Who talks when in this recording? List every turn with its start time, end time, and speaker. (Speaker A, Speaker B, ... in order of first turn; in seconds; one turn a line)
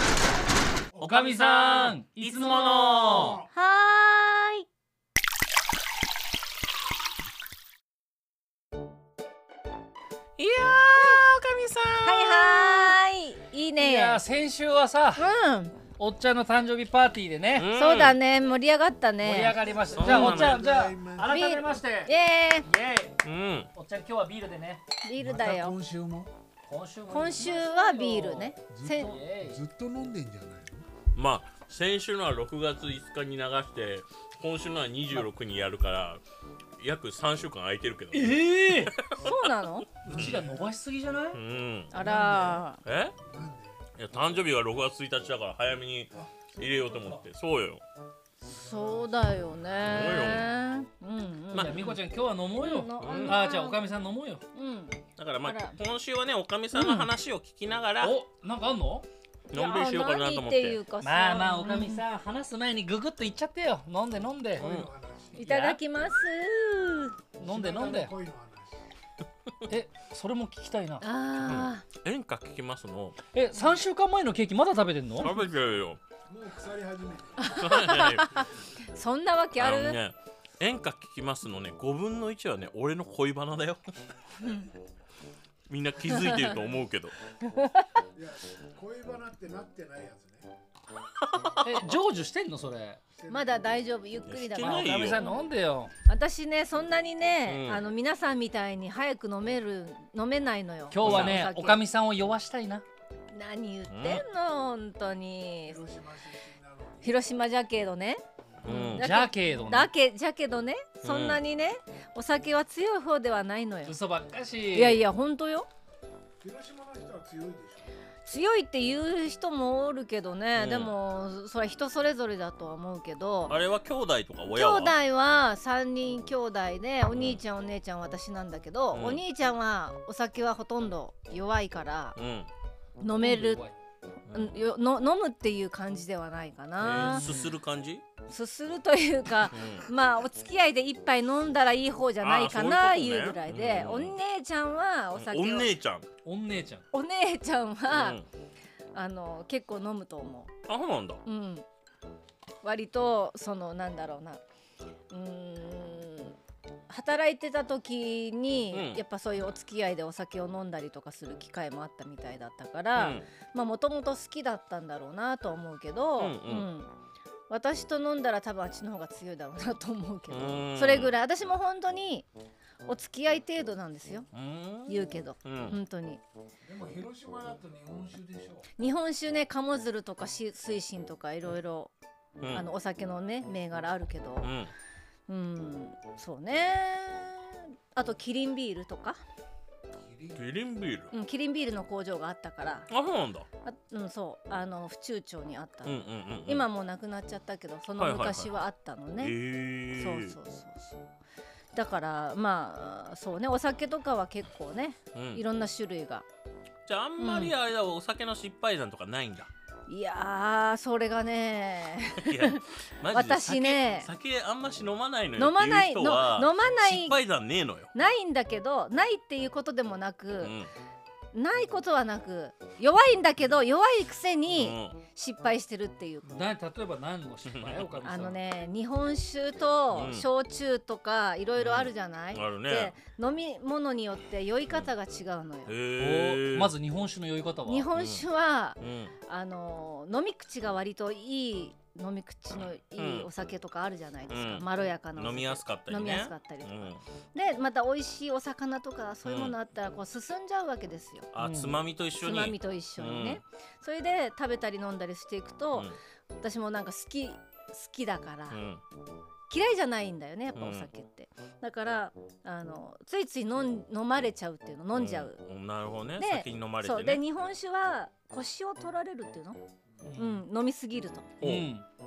Speaker A: 1.0-3.4
Speaker B: 1.0-3.4
Speaker C: 3.5-4.7
Speaker A: 10.4-12.9
Speaker C: 12.0-14.2
Speaker B: 13.8-15.3
Speaker C: 15.2-15.8
Speaker B: 15.8-17.7
Speaker A: 17.5-18.2
Speaker C: 17.7-20.3
Speaker B: 19.2-23.2
Speaker D: 19.6-21.4
Speaker A: 19.9-20.6
Speaker C: 21.2-22.7
Speaker A: 23.2-23.7
Speaker B: 23.7-24.8
Speaker C: 25.0-25.8
Speaker D: 25.2-26.3
Speaker B: 26.6-29.6
Speaker C: 27.1-29.2
Speaker D: 28.7-30.8
Speaker A: 31.1-36.2
Speaker A: 36.8-39.3
Speaker B: 38.1-39.0
Speaker C: 39.1-39.9
Speaker B: 40.0-41.4
Speaker D: 40.1-40.6
Speaker A: 40.1-40.4
Speaker A: 41.3-42.0
Speaker C: 41.9-42.8
Speaker D: 42.0-42.6
Speaker A: 42.8-43.2
Speaker D: 43.2-43.8
Speaker A: 44.0-47.8
Speaker C: 48.4-52.0
Speaker D: 48.7-50.0
Speaker A: 49.8-50.5
Speaker B: 51.5-54.4
Speaker A: 51.5-51.8
Speaker C: 52.6-53.9
Speaker A: 53.0-53.4
Speaker C: 54.5-55.8
Speaker A: 55.2-58.2
Speaker B: 56.7-57.0
Speaker C: 56.8-57.0
Speaker B: 58.0-59.0
Speaker A: 59.5-60.8
Speaker C: 59.5-62.0
Speaker B: 61.0-64.7
Speaker A: 64.6-64.9
Speaker D: 64.6-65.5
Speaker C: 65.3-67.2
Speaker B: 65.4-65.8
Speaker B: 67.4-68.1
Speaker D: 67.4-68.8
Speaker B: 69.7-71.5
Speaker C: 71.0-71.8
Speaker A: 71.4-73.2
Speaker B: 73.3-75.4
Speaker A: 75.2-76.0
Speaker D: 76.3-78.6
Speaker C: 77.4-80.0
Speaker A: 77.6-78.3
Speaker A: 79.6-83.8
Speaker A: 85.7-87.2
Speaker C: 87.4-87.8
Speaker D: 88.1-90.5
Speaker A: 91.2-91.9
Speaker B: 91.6-93.0
Speaker D: 93.2-93.5
Speaker C: 93.3-95.4
Speaker A: 94.2-95.2
Speaker B: 94.6-95.9
Speaker C: 96.1-101.8
Speaker A: 97.5-97.8
Speaker B: 100.9-102.8
Speaker A: 101.0-101.4
Speaker C: 103.3-105.8
Speaker A: 103.9-104.2
Speaker D: 105.7-107.2
Speaker C: 107.0-114.0
Speaker A: 108.6-109.1
Speaker B: 108.7-109.9
Speaker A: 111.0-111.4
Speaker B: 113.8-115.0
Speaker C: 114.7-115.7
Speaker D: 116.4-117.9
Speaker C: 118.2-123.6
Speaker A: 120.5-121.0
Speaker A: 123.5-125.0
Speaker C: 124.5-132.2
Speaker A: 127.1-127.4
Speaker A: 128.9-129.2
Speaker A: 132.2-132.5
Speaker C: 133.0-133.6
Speaker B: 133.2-133.7
Speaker A: 134.3-134.6
Speaker C: 134.3-137.2
Speaker A: 136.8-138.0
Speaker B: 136.8-137.5
Speaker C: 138.3-145.7
Speaker A: 139.5-139.9
Speaker A: 142.2-144.2
Speaker A: 145.1-146.1
Speaker B: 146.2-146.8
Speaker C: 146.9-148.2
Speaker A: 147.9-148.2
Speaker C: 148.9-150.5
Speaker A: 150.7-151.2
Speaker C: 151.2-151.7
Speaker C: 152.6-154.4
Speaker C: 155.1-156.4
Speaker C: 156.9-166.9
Speaker A: 158.7-159.0
Speaker A: 162.9-163.2
Speaker A: 166.2-166.7
Speaker C: 167.5-172.3
Speaker A: 170.3-171.1
Speaker C: 172.8-174.3
Speaker A: 174.3-175.8
Speaker C: 174.9-176.2
Speaker D: 176.6-178.7
Speaker C: 178.8-181.9
Speaker A: 182.4-182.7
Speaker C: 182.5-184.5
Speaker A: 184.4-184.7
Speaker C: 185.3-189.2
Speaker D: 190.0-190.4
Speaker A: 190.3-191.1
Speaker C: 191.1-192.9
Speaker A: 192.9-193.5
Speaker C: 193.6-199.3
Speaker A: 195.8-196.7
Speaker A: 198.0-198.6
Speaker A: 199.2-200.3
Speaker C: 200.0-201.1
Speaker C: 201.7-206.2
Speaker A: 205.1-205.4
Speaker A: 206.8-209.5
Speaker C: 207.2-207.5
Speaker C: 209.9-214.1
Speaker A: 212.1-217.9
Speaker C: 215.4-217.2
Speaker C: 217.9-220.5
Speaker A: 220.4-220.7
Speaker C: 221.3-226.4
Speaker A: 224.5-225.0
Speaker B: 226.2-228.4
Speaker A: 227.4-228.0
Speaker C: 228.0-235.7
Speaker A: 229.9-230.3
Speaker A: 231.6-232.9
Speaker A: 235.7-236.7
Speaker B: 236.0-237.9
Speaker C: 237.6-251.3
Speaker A: 237.9-238.2
Speaker A: 238.8-239.1
Speaker A: 243.0-243.3
Speaker A: 244.3-247.0
Speaker A: 249.2-249.5
Speaker A: 251.3-253.4
Speaker B: 251.4-251.8
Speaker C: 252.2-255.9
Speaker C: 256.4-258.6
Speaker A: 258.5-258.8
Speaker C: 259.5-265.4
Speaker A: 260.5-260.9
Speaker A: 264.9-267.2
Speaker C: 266.2-269.6
Speaker B: 270.0-270.4
Speaker C: 270.1-271.3
Speaker A: 271.4-271.7
Speaker B: 271.4-271.9